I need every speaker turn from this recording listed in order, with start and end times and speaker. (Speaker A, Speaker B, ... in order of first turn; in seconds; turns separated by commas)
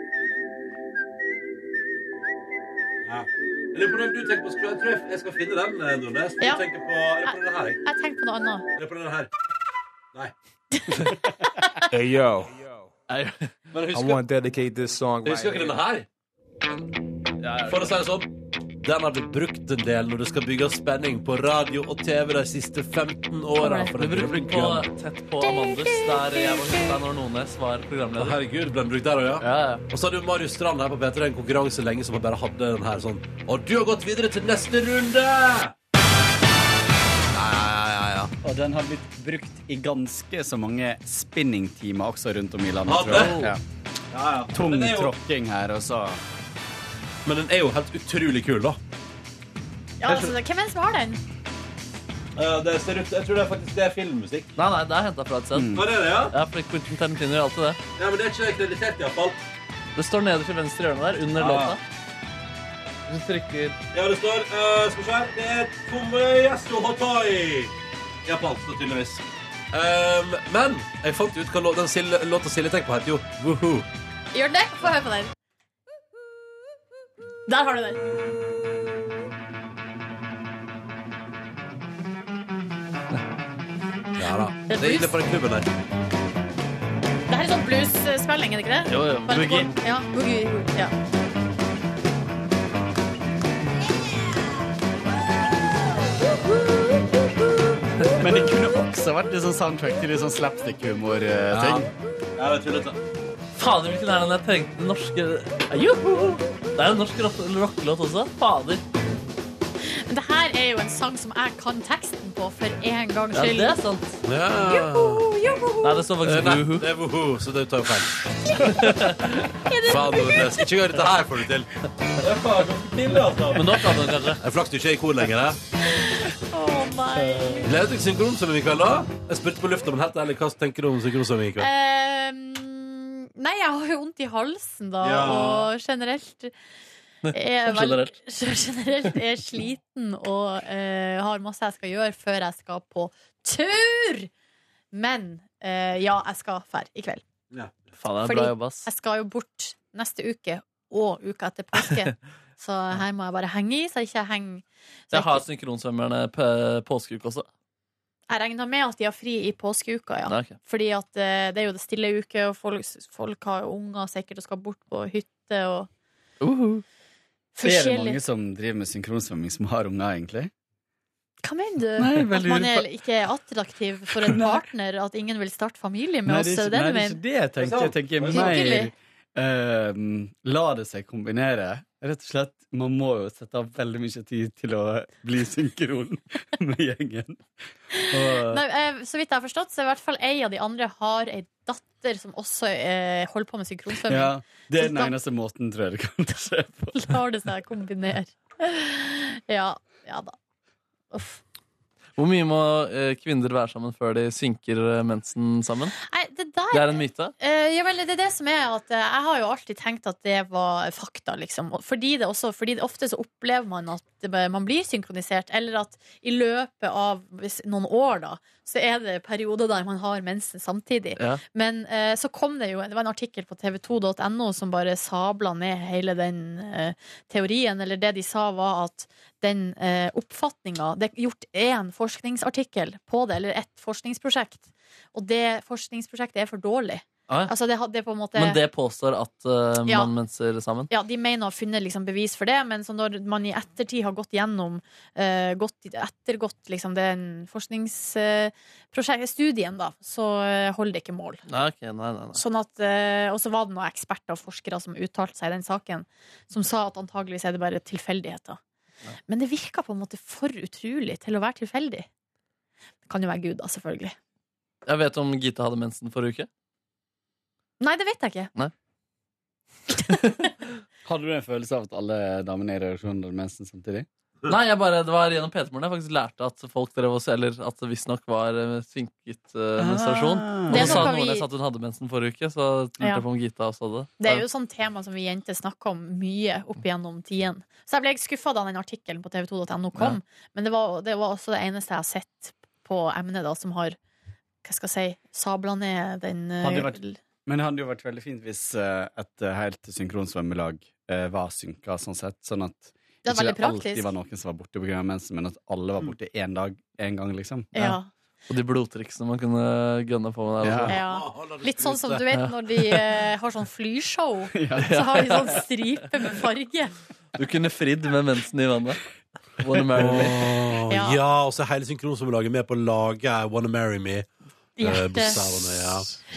Speaker A: 3.0-7.8, Speaker B: 7.2-8.7, Speaker A: 8.8-9.3, Speaker B: 10.7-11.8, Speaker C: 11.9-12.9, Speaker D: 13.1-13.5, Speaker A: 13.7-14.2, Speaker C: 13.9-15.8, Speaker A: 15.2-16.1, Speaker D: 17.4-18.0, Speaker A: 17.7-24.9, Speaker B: 23.6-23.9, Speaker D: 24.0-28.4, Speaker B: 25.4-26.9, Speaker A: 28.2-35.8, Speaker D: 29.4-29.8, Speaker A: 37.3-38.3, Speaker E: 38.4-43.6, Speaker A: 42.9-43.4, Speaker D: 43.0-43.5, Speaker A: 44.1-45.1, Speaker E: 44.5-46.2, Speaker A: 47.2-48.8, Speaker B: 50.0-51.2, Speaker A: 50.1-50.4, Speaker A: 52.4-54.5, Speaker D: 54.6-57.8, Speaker E: 55.5-55.9, Speaker A: 55.8-56.4, Speaker A: 58.0-59.4, Speaker D: 60.0-61.8, Speaker A: 61.4-61.8, Speaker D: 63.1-63.8, Speaker A: 63.9-67.7, Speaker A: 68.3-73.9, Speaker B: 74.3-75.3, Speaker B: 77.5-78.0, Speaker A: 84.2-85.7, Speaker B: 84.7-85.2, Speaker B: 87.3-90.9, Speaker D: 88.9-89.7, Speaker E: 98.2-101.9, Speaker A: 101.5-103.0, Speaker D: 103.6-108.8, Speaker B: 109.9-113.8, Speaker D: 113.3-114.2, Speaker A: 114.2-115.3, Speaker B: 114.6-116.1, Speaker D: 115.8-116.9, Speaker A: 116.2-118.2, Speaker D: 118.6-119.5, Speaker B: 119.7-120.7, Speaker A: 119.8-125.6, Speaker D: 123.5-124.4, Speaker B: 125.9-127.8, Speaker A: 127.6-131.7, Speaker B: 131.6-136.5, Speaker A: 135.0-135.7, Speaker D: 137.2-138.2, Speaker B: 137.3-144.3, Speaker B: 144.9-147.2, Speaker A: 147.5-147.8, Speaker D: 148.0-148.9, Speaker B: 148.2-155.4, Speaker D: 155.1-157.5, Speaker B: 158.3-165.9, Speaker D: 160.3-160.6, Speaker D: 166.4-166.8, Speaker B: 167.6-168.2, Speaker E: 167.6-170.5, Speaker B: 171.4-177.2, Speaker E: 172.0-172.9, Speaker E: 174.2-174.6, Speaker E: 176.2-187.5, Speaker A: 177.6-178.8, Speaker B: 178.3-178.9, Speaker B: 187.9-195.2, Speaker E: 188.1-188.6, Speaker E: 194.0-197.2, Speaker B: 196.9-200.3, Speaker B: 201.1-201.4, Speaker D: 202.2-206.0, Speaker B: 206.0-238.6, Speaker D: 206.7-207.3, Speaker D: 221.2-221.4, Speaker D: 238.3-240.9, Speaker B: 239.9-240.1, Speaker B: 240.9-251.4, Speaker D: 251.5-252.4, Speaker B: 252.3-258.6, Speaker B: 259.3-262.1, Speaker B: 263.1-264.2, Speaker D: 264.9-266.5, Speaker B: 267.8-268.5, Speaker D: 270.1-270.5, Speaker E: 271.1-274.1, Speaker D: 274.4-284.4, Speaker E: 279.8-281.1, Speaker B: 280.7-281.5, Speaker B: 284.2-294.0, Speaker B: 294.6-297.2, Speaker E: 296.6-307.7, Speaker B: 303.3-304.1, Speaker B: 307.8-308.1, Speaker D: 308.5-311.0, Speaker E: 310.6-310.9, Speaker B: 310.9-317.0, Speaker A: 311.0-312.2, Speaker D: 312.3-313.2, Speaker E: 314.5-315.0, Speaker D: 314.8-315.6, Speaker D: 317.4-319.0, Speaker D: 319.6-320.6, Speaker A: 320.0-324.3, Speaker B: 320.9-321.2, Speaker B: 324.8-326.0, Speaker A: 324.8-326.1